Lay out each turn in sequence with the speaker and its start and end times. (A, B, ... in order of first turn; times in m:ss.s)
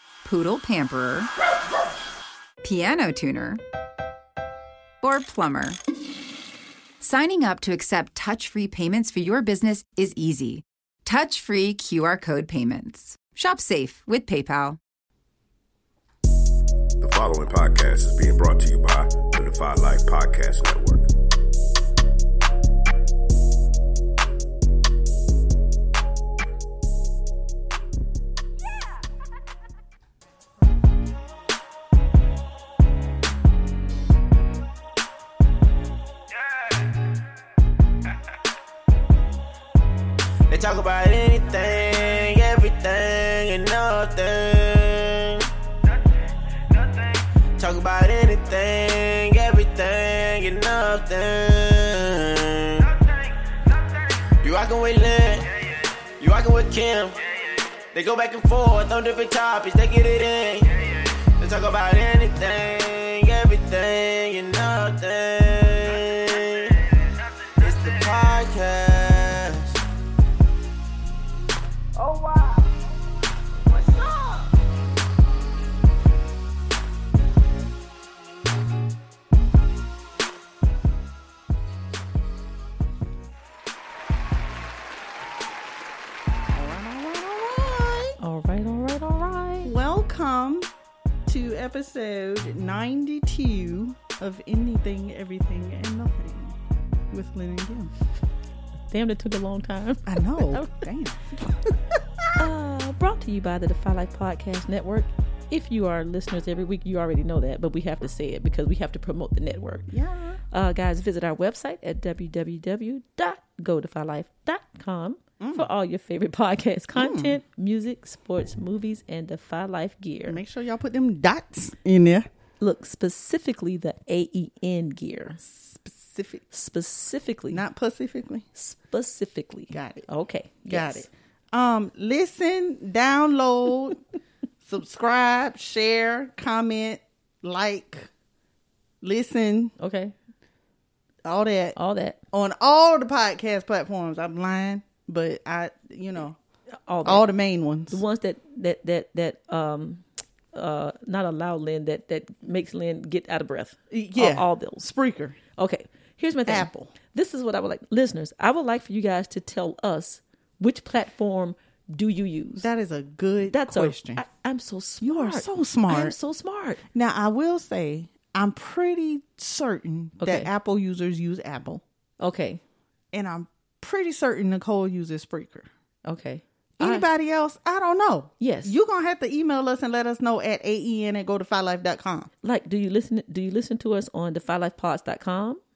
0:00.2-0:01.3 A
0:02.6-0:03.6 A
0:05.0-0:05.8 A
0:07.0-0:14.8 A
0:17.0-0:21.1 B
0:40.5-0:45.5 C
0:46.7-0:53.3 C
0:54.4-0:55.5 C
0:56.2-0:57.3 C
0:57.9-1:06.9 C
1:07.6-1:09.8 C
1:12.0-1:12.7 C
1:13.7-1:14.5 C
1:26.5-1:28.2 D
1:28.2-1:29.7 E
1:29.6-1:30.7 D
1:31.3-1:36.6 D
1:37.1-1:37.9 D
1:38.9-1:40.8 E
1:40.1-1:42.3 D
1:42.4-1:49.9 E
1:49.9-1:50.4 D
1:50.5-2:00.4 E
1:55.4-1:55.7 D
1:57.0-1:57.4 D
2:00.3-2:02.3 D
2:02.6-2:05.4 E
2:05.4-2:06.4 D
2:06.5-2:07.6 E
2:07.5-2:08.5 D
2:08.6-2:11.1 E
2:09.7-2:10.1 D
2:10.7-2:14.0 D
2:14.6-2:18.1 D
2:19.0-2:19.8 D
2:19.8-2:20.1 E
2:21.2-2:21.8 D
2:21.8-2:22.2 E
2:22.3-2:26.4 D
2:26.9-2:27.3 E
2:27.0-2:28.0 D
2:27.9-2:34.9 E
2:33.9-2:35.4 D
2:35.6-2:42.7 E
2:36.5-2:36.9 D
2:42.6-2:44.2 D
2:43.4-2:46.8 E
2:45.0-2:46.2 D
2:46.9-2:51.8 D
2:50.2-2:50.5 E
2:52.2-2:52.6 E
2:53.1-2:55.7 D
2:56.0-2:57.1 E
2:56.8-3:02.3 D
2:58.4-2:58.8 E
3:02.4-3:05.6 E